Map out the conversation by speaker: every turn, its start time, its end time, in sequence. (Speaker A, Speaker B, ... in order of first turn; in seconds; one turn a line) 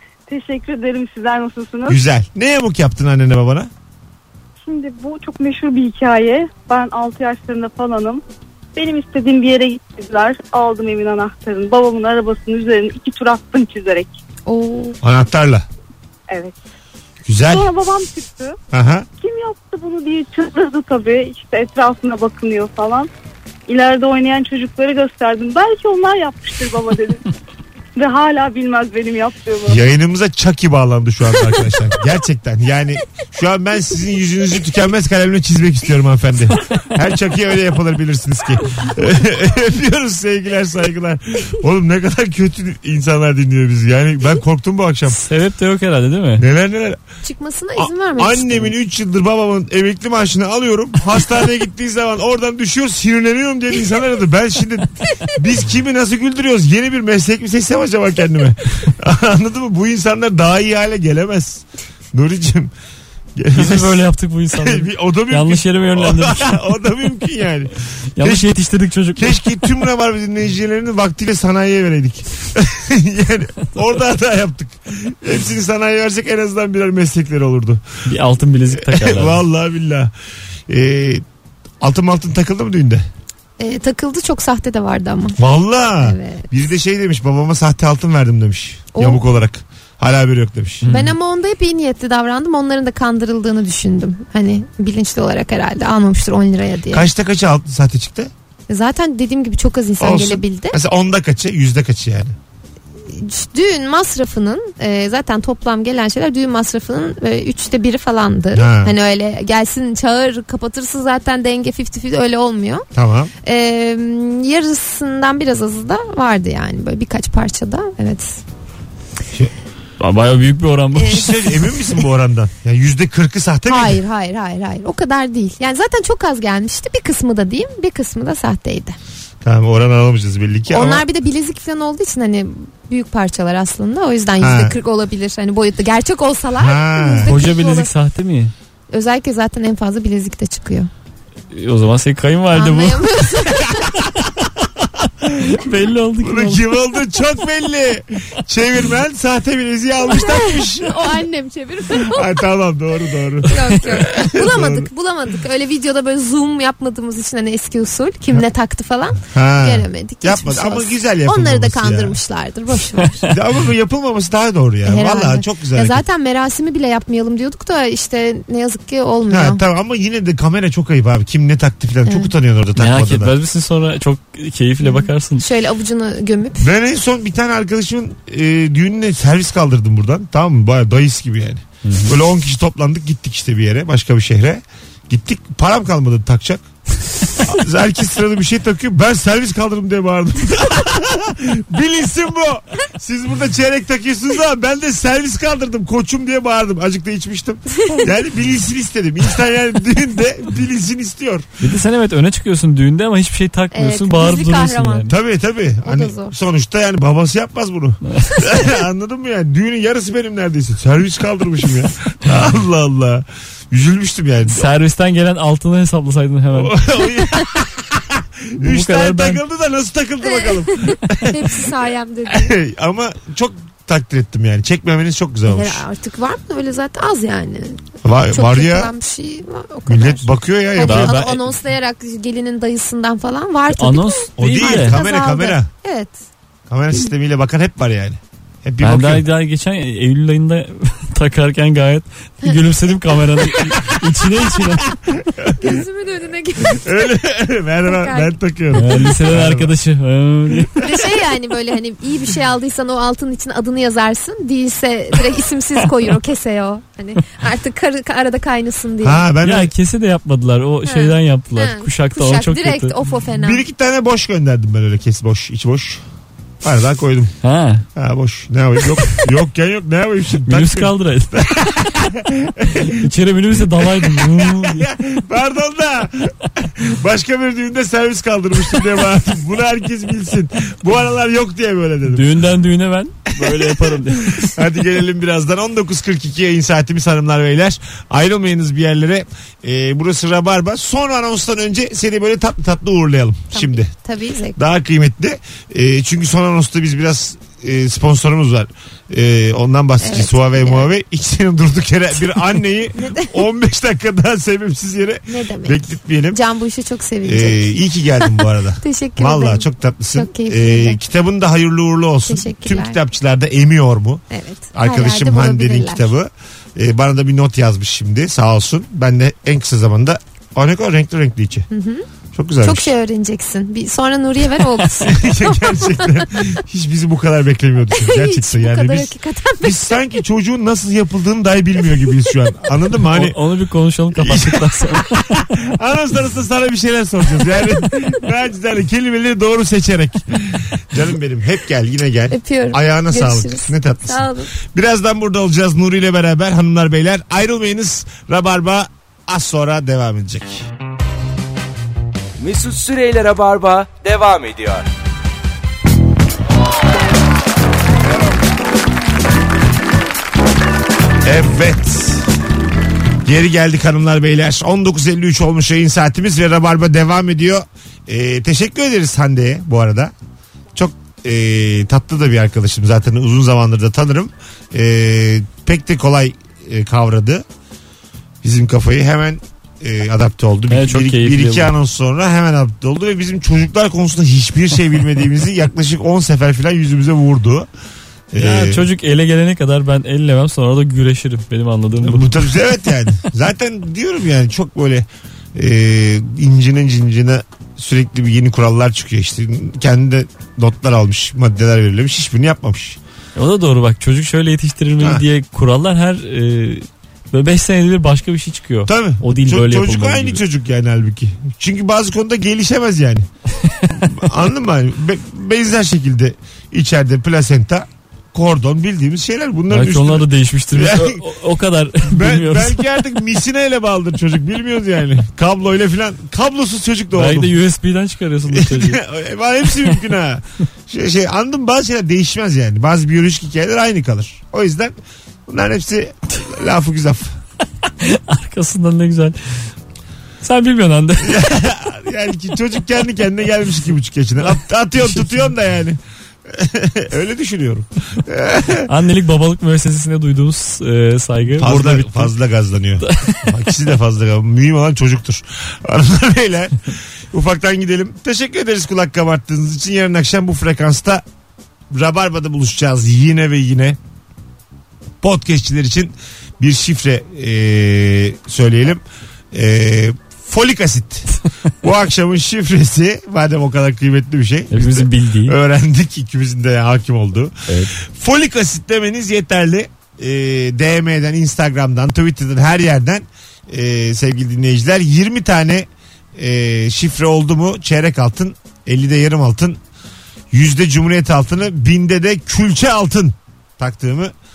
Speaker A: 0.3-2.0
Speaker B: 1.9-3.7
Speaker A: 4.6-8.2
Speaker A: 8.7-14.2
Speaker C: 14.5-15.0
Speaker B: 15.0-15.6
Speaker A: 16.3-16.6
Speaker B: 17.2-17.7
Speaker A: 17.4-18.6
Speaker B: 18.7-19.1
Speaker A: 19.2-23.1
Speaker A: 23.7-27.2
Speaker A: 27.9-29.8
Speaker B: 29.6-45.2
Speaker D: 45.2-46.4
Speaker B: 46.4-47.0
Speaker C: 47.2-48.7
Speaker B: 47.8-62.7
Speaker B: 63.4-68.5
Speaker D: 63.5-66.6
Speaker D: 68.2-69.5
Speaker B: 69.2-77.8
Speaker D: 78.0-79.4
Speaker B: 78.8-80.1
Speaker B: 80.7-81.2
Speaker B: 81.8-83.0
Speaker C: 83.6-85.4
Speaker B: 85.4-90.9
Speaker C: 86.0-86.5
Speaker C: 88.9-89.2
Speaker D: 90.8-91.1
Speaker C: 90.8-97.1
Speaker B: 96.9-98.3
Speaker C: 98.7-100.8
Speaker B: 100.0-102.3
Speaker C: 103.1-112.8
Speaker B: 108.5-108.9
Speaker B: 112.9-113.3
Speaker C: 113.4-118.4
Speaker D: 120.0-121.3
Speaker B: 120.9-124.0
Speaker C: 123.7-128.9
Speaker B: 129.4-131.0
Speaker C: 130.7-137.9
Speaker B: 134.4-134.7
Speaker B: 136.6-137.3
Speaker D: 137.3-138.5
Speaker C: 138.9-140.9
Speaker D: 141.5-143.1
Speaker C: 142.5-143.9
Speaker B: 143.5-145.6
Speaker D: 145.4-146.6
Speaker B: 146.2-151.2
Speaker C: 150.0-152.4
Speaker B: 151.9-154.9
Speaker C: 153.4-163.3
Speaker B: 159.3-162.2
Speaker B: 163.3-166.0
Speaker C: 164.8-169.6
Speaker B: 169.3-173.3
Speaker D: 172.8-175.4
Speaker C: 174.8-176.7
Speaker B: 176.6-186.6
Speaker D: 181.8-182.1
Speaker B: 187.4-201.5
Speaker D: 201.6-205.1
Speaker C: 203.7-205.1
Speaker B: 205.1-214.7
Speaker C: 205.8-206.4
Speaker D: 208.1-208.4
Speaker D: 214.4-216.8
Speaker B: 216.5-221.7
Speaker D: 218.6-219.4
Speaker C: 220.2-222.6
Speaker B: 222.3-225.8
Speaker C: 225.5-236.2
Speaker B: 228.0-228.9
Speaker B: 229.9-231.2
Speaker D: 230.8-231.4
Speaker D: 233.7-235.0
Speaker B: 234.4-235.7
Speaker B: 236.7-239.3
Speaker D: 238.8-245.1
Speaker B: 245.0-245.8
Speaker C: 245.6-247.2
Speaker B: 246.6-249.7
Speaker C: 247.8-248.4
Speaker D: 248.7-250.8
Speaker C: 250.8-259.2
Speaker B: 259.0-259.7
Speaker D: 259.4-262.9
Speaker C: 260.8-263.6
Speaker B: 263.4-266.0
Speaker B: 266.6-267.3
Speaker D: 267.4-267.8
Speaker B: 267.9-273.1
Speaker D: 269.0-269.2
Speaker D: 270.4-272.0
Speaker D: 272.8-274.9
Speaker B: 273.6-282.3
Speaker D: 282.1-284.6
Speaker B: 283.4-293.9
Speaker C: 293.5-294.6
Speaker B: 294.6-306.4
Speaker C: 300.0-300.9
Speaker C: 302.9-303.4
Speaker C: 305.3-311.0
Speaker B: 307.2-321.7
Speaker C: 312.2-313.0
Speaker C: 314.3-316.1
Speaker C: 321.7-322.1
Speaker B: 322.3-322.9
Speaker C: 322.6-326.6
Speaker B: 325.0-333.4
Speaker C: 327.9-329.9
Speaker D: 333.1-335.3
Speaker B: 334.1-350.6
Speaker C: 342.3-344.5
Speaker E: 352.4-354.9
Speaker B: 361.2-362.2
Speaker B: 363.2-370.1
Speaker B: 370.7-377.4
Speaker B: 378.4-387.7
Speaker D: 380.7-381.7
Speaker B: 388.3-388.9
Speaker D: 388.4-392.6
Speaker B: 392.0-403.0
Speaker D: 403.4-410.4
Speaker B: 405.0-405.2
Speaker B: 408.9-413.3
Speaker B: 413.9-421.2
Speaker D: 419.7-422.8
Speaker B: 422.1-427.6
Speaker D: 427.1-429.0
Speaker B: 428.5-434.9
Speaker B: 435.5-437.4
Speaker D: 438.0-439.4
Speaker D: 440.4-441.4
Speaker B: 441.2-448.9
Speaker D: 445.0-445.4
Speaker D: 448.9-452.3
Speaker B: 451.6-461.2
Speaker D: 453.0-453.5
Speaker B: 461.9-464.0
Speaker B: 465.2-489.8
Speaker D: 474.7-475.6
Speaker D: 477.7-477.9
Speaker B: 490.5-494.3